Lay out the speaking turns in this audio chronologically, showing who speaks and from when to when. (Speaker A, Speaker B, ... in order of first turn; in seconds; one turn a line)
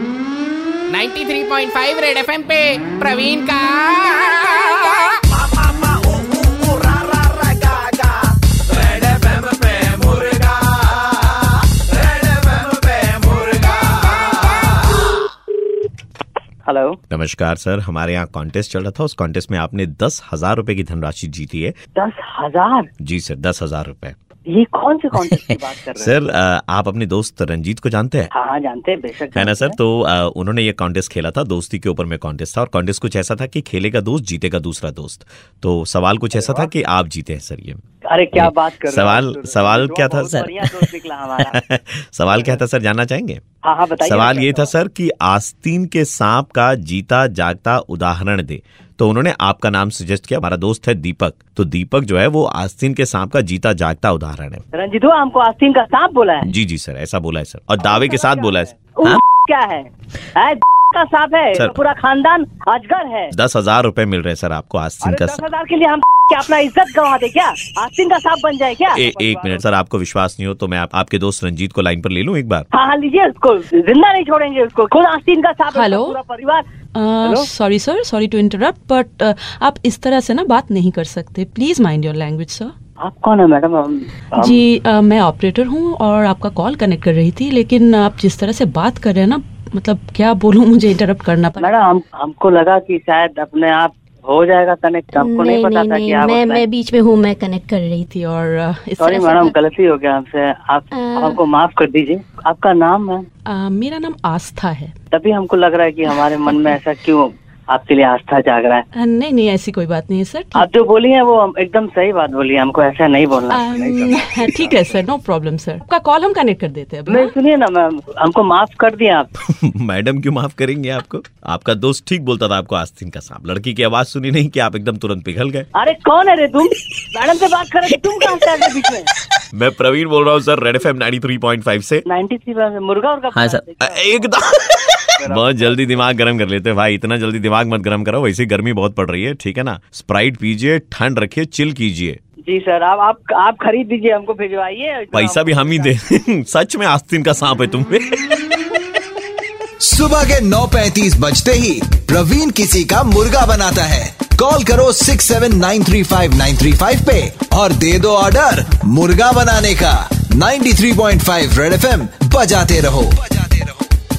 Speaker A: 0.9-5.1
Speaker B: 5.7-7.3
Speaker B: 9.8-10.2
Speaker C: 16.7-17.0
Speaker B: 17.1-21.8
Speaker C: 21.9-22.9
Speaker B: 23.0-24.1
Speaker C: 24.5-26.2
Speaker B: 26.0-28.3
Speaker C: 28.3-29.8
Speaker B: 29.3-37.8
Speaker C: 36.3-36.7
Speaker C: 38.1-41.5
Speaker B: 38.3-43.4
Speaker C: 42.3-42.6
Speaker C: 43.6-44.7
Speaker B: 44.0-54.6
Speaker C: 54.7-56.5
Speaker B: 56.4-59.2
Speaker C: 57.8-63.3
Speaker B: 61.5-61.8
Speaker B: 63.3-65.5
Speaker C: 65.0-69.6
Speaker B: 68.9-72.7
Speaker C: 72.7-76.6
Speaker D: 75.7-76.2
Speaker D: 77.0-82.7
Speaker C: 83.0-84.6
Speaker D: 84.4-91.7
Speaker C: 91.6-96.7
Speaker E: 95.1-98.1
Speaker D: 98.0-99.4
Speaker C: 99.0-103.2
Speaker E: 99.1-99.5
Speaker E: 100.9-101.4
Speaker D: 103.5-104.9
Speaker C: 105.1-108.8
Speaker D: 108.9-110.7
Speaker C: 110.5-115.0
Speaker D: 113.5-117.3
Speaker C: 117.1-119.3
Speaker B: 119.4-125.7
Speaker C: 125.8-129.1
Speaker B: 129.5-132.0
Speaker C: 132.1-134.3
Speaker B: 133.7-142.2
Speaker C: 135.2-135.9
Speaker C: 142.5-145.9
Speaker B: 145.1-148.3
Speaker F: 149.8-163.6